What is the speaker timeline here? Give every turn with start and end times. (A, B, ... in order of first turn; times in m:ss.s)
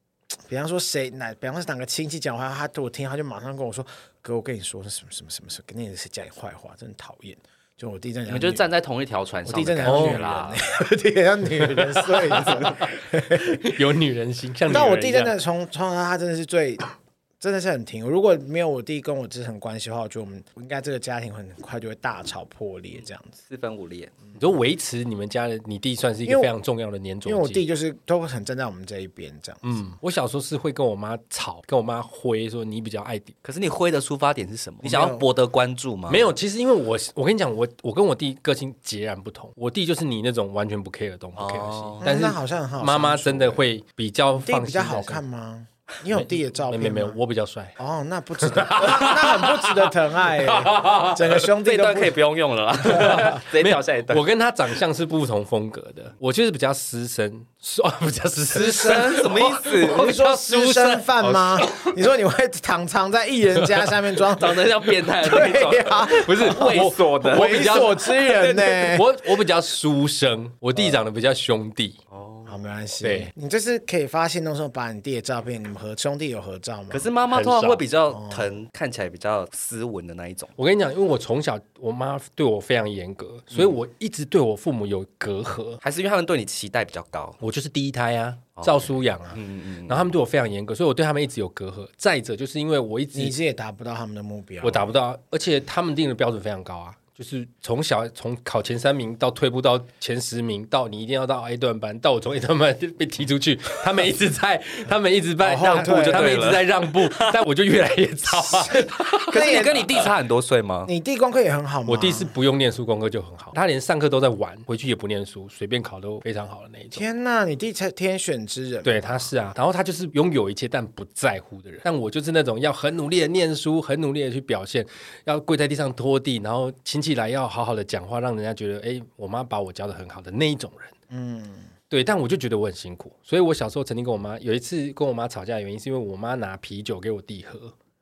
0:00.4-0:08.6 A
0:08.3-0:10.6 B
0:09.4-0:13.6 A
0:09.8-0:10.2 C
0:11.7-0:15.3 C
0:14.7-0:16.8 A
0:17.4-0:23.4 A
0:23.5-0:24.1 B
0:24.4-0:27.6 C
0:27.2-0:29.6 A
0:29.6-0:33.3 C
0:33.4-0:36.2 B
0:34.8-0:35.2 A
0:36.1-0:45.2 C
0:41.4-0:42.0 B
0:42.0-0:43.6 A
0:44.4-0:47.2 A
0:46.1-0:47.7 C
0:47.8-0:52.2 A
0:48.4-0:51.4 C
0:51.6-0:54.2 B
0:52.8-0:59.6 C
0:58.5-1:09.1 A
0:58.6-1:01.1 B
1:01.2-1:01.7 C
1:03.6-1:03.8 C
1:04.4-1:08.9 B
1:06.1-1:08.1 C
1:08.8-1:12.0 C
1:12.1-1:12.7 B
1:12.5-1:17.1 A
1:13.0-1:13.3 C
1:16.9-1:20.5 B
1:17.3-1:17.8 C
1:18.1-1:18.5 A
1:20.6-1:25.8 C
1:25.8-1:27.4 B
1:27.4-1:33.3 C
1:28.6-1:30.1 B
1:33.1-1:34.9 A
1:34.6-1:49.7 C
1:45.4-1:46.4 A
1:45.6-1:47.4 B
1:48.6-1:49.9 A
1:49.2-1:50.9 B
1:50.8-1:52.3 A
1:51.9-1:57.0 C
1:56.9-1:59.2 A
1:58.8-2:10.9 C
2:11.1-2:11.7 A
2:11.9-2:17.7 C